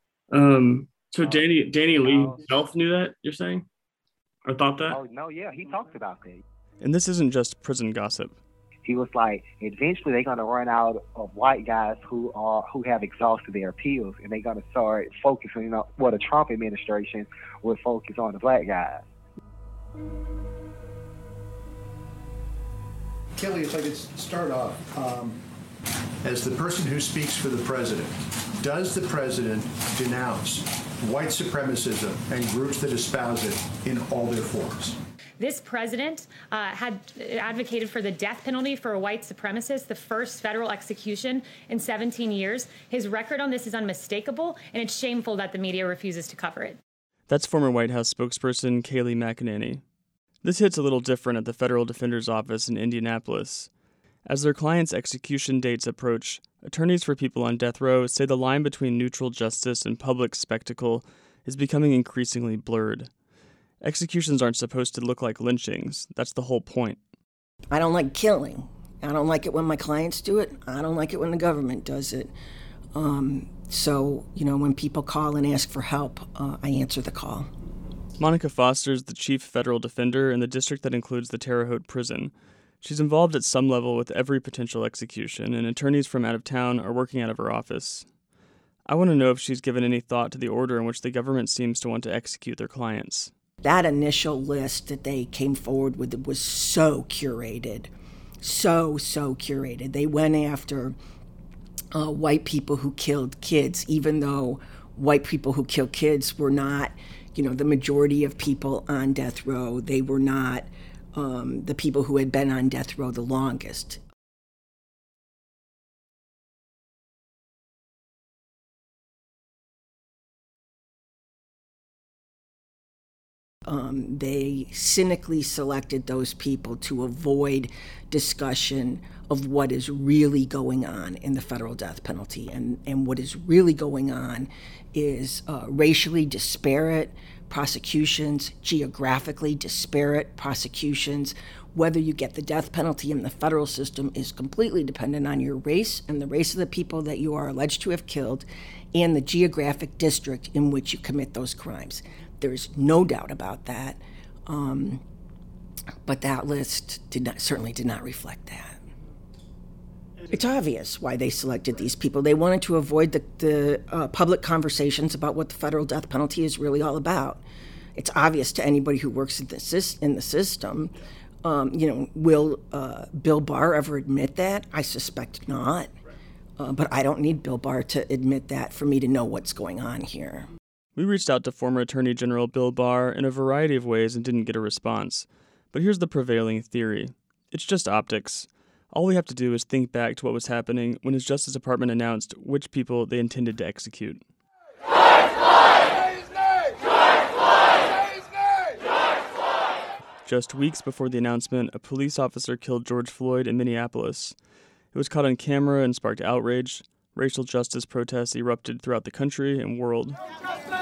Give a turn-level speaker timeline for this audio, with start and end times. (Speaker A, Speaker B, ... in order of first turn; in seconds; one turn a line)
Speaker A: 0.3-3.6
Speaker B: 1.2-2.5
Speaker A: 4.5-5.0
Speaker B: 4.8-6.4
Speaker C: 6.8-8.4
Speaker B: 8.8-19.1
Speaker D: 23.4-25.4
Speaker D: 26.2-35.0
Speaker E: 35.4-46.8
Speaker C: 47.3-49.8
Speaker C: 50.4-53.7
Speaker C: 54.3-63.1
Speaker C: 63.8-67.0
Speaker F: 67.7-72.3
Speaker F: 72.9-77.5
Speaker C: 78.2-88.1
Speaker C: 88.9-93.3
Speaker F: 93.6-97.9
Speaker F: 98.4-101.0
Speaker F: 101.9-114.0
Speaker F: 123.7-155.0
Speaker F: 156.1-158.8
Speaker F: 160.3-167.4
Speaker F: 167.9-175.9
Speaker F: 176.6-180.5
Speaker C: 181.0-194.2
Speaker C: 200.2-204.3
Speaker C: 204.9-210.2